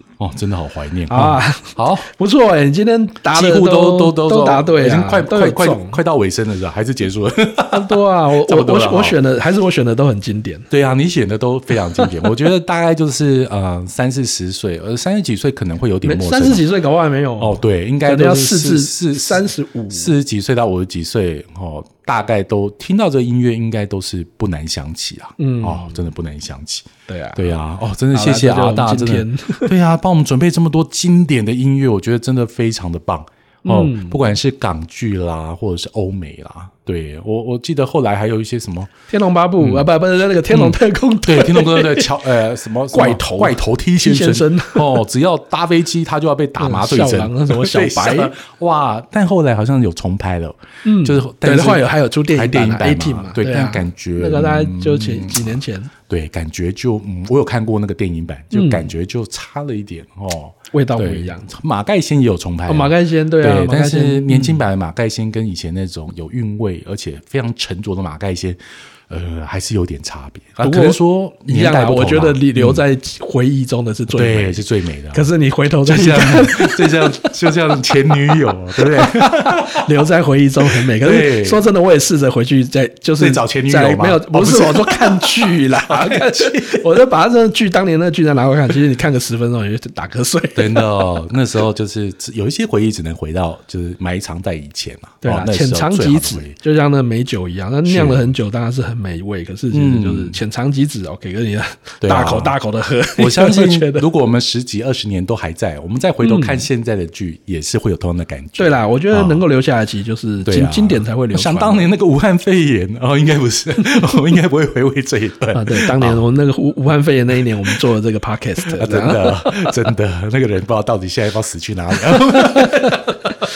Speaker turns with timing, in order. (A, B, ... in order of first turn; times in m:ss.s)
0:00.2-0:02.1 A
0:01.1-0:06.0 B
0:03.3-0:09.2 A
0:07.7-0:10.7 B
0:10.7-0:16.7 A
0:16.0-0:20.1 B
0:17.4-0:38.9 A
0:25.4-0:26.0 B
0:27.1-0:27.5 B
0:28.1-0:29.7 B
0:33.6-0:34.3 B
0:39.1-0:42.2 B
0:39.6-0:39.9 A
0:40.5-1:12.8 A
0:42.9-0:45.0 B
0:46.6-0:48.4 B
0:50.8-0:55.9 B
0:58.5-0:58.9 B
1:00.7-1:01.5 B
1:02.7-1:04.6 B
1:10.6-1:14.6 B
1:14.1-1:15.3 A
1:15.1-1:17.3 B
1:15.8-1:19.9 A
1:18.1-1:31.2 B
1:20.8-1:21.6 A
1:23.2-1:26.8 A
1:30.6-1:36.6 A
1:35.2-1:44.1 B
1:37.9-1:38.3 A
1:39.7-1:40.4 A
1:42.0-1:42.6 A
1:43.2-1:49.4 A
1:46.2-1:46.7 B
1:48.6-1:51.9 B
1:50.4-1:56.2 A
1:55.5-1:59.8 B
1:58.7-2:03.3 A
2:02.2-2:03.1 B